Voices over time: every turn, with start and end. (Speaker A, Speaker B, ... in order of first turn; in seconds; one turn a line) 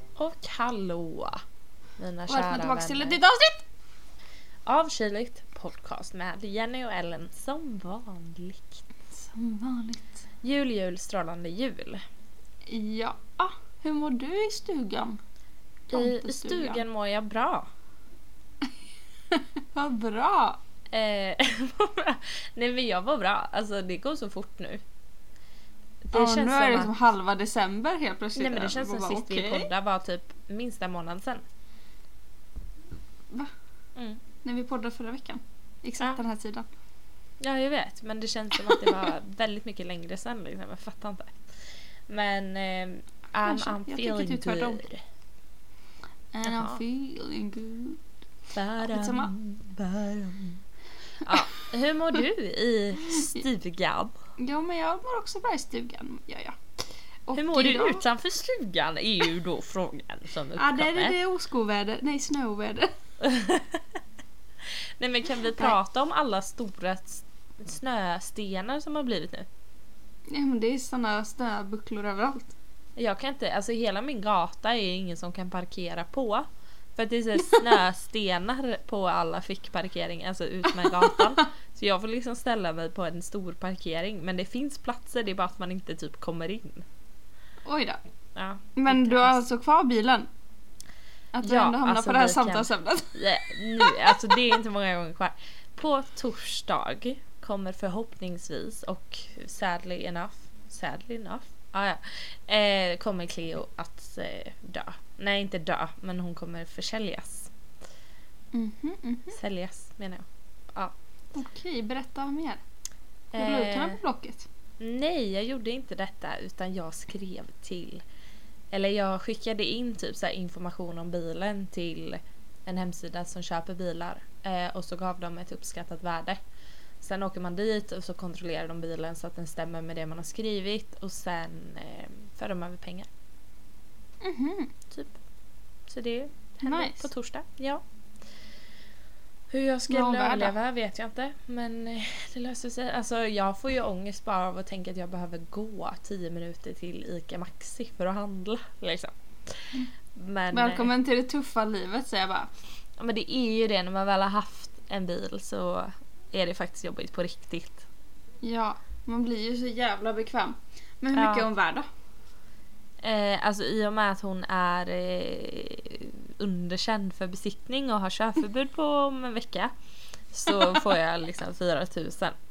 Speaker A: 0.2-1.4
Speaker A: 2.0-3.2
Speaker B: 2.3-3.7
Speaker A: 4.7-8.8
Speaker B: 9.1-10.2
Speaker A: 10.4-12.0
Speaker B: 12.7-15.2
Speaker B: 15.9-16.8
Speaker A: 15.9-17.7
Speaker B: 19.3-20.6
Speaker A: 20.9-24.8
Speaker A: 26.1-26.9
Speaker B: 26.1-29.7
Speaker A: 28.4-31.4
Speaker A: 34.0-34.2
Speaker B: 34.4-36.7
Speaker A: 37.4-41.4
Speaker A: 42.1-45.0
Speaker B: 43.4-44.8
Speaker B: 46.3-48.0
Speaker A: 46.4-46.8
Speaker A: 48.5-50.6
Speaker B: 48.8-49.3
Speaker A: 51.2-54.2
Speaker B: 54.4-56.6
Speaker B: 57.3-58.0
Speaker A: 57.4-61.2
Speaker B: 60.6-62.9
Speaker A: 63.2-63.8
Speaker A: 65.0-69.5
Speaker B: 70.3-72.5
Speaker A: 73.0-86.8
Speaker B: 80.8-81.5
Speaker B: 87.7-88.0
Speaker A: 88.3-89.4
Speaker B: 88.8-90.3
Speaker B: 91.3-94.4
Speaker A: 91.4-107.5
Speaker B: 108.5-109.4
Speaker A: 109.3-110.9
Speaker B: 111.3-112.6
Speaker A: 113.3-114.0
Speaker B: 113.3-114.5
Speaker A: 114.8-118.0
Speaker A: 118.7-126.4
Speaker A: 127.0-133.1
Speaker B: 134.2-134.7
Speaker A: 134.9-135.2
Speaker A: 135.9-137.8
Speaker B: 136.7-137.1
Speaker A: 139.5-150.9
Speaker B: 139.9-140.6
Speaker B: 150.5-152.5
Speaker A: 153.0-157.9
Speaker B: 158.4-161.9
Speaker A: 161.1-161.5
Speaker A: 163.0-169.7
Speaker A: 170.3-172.3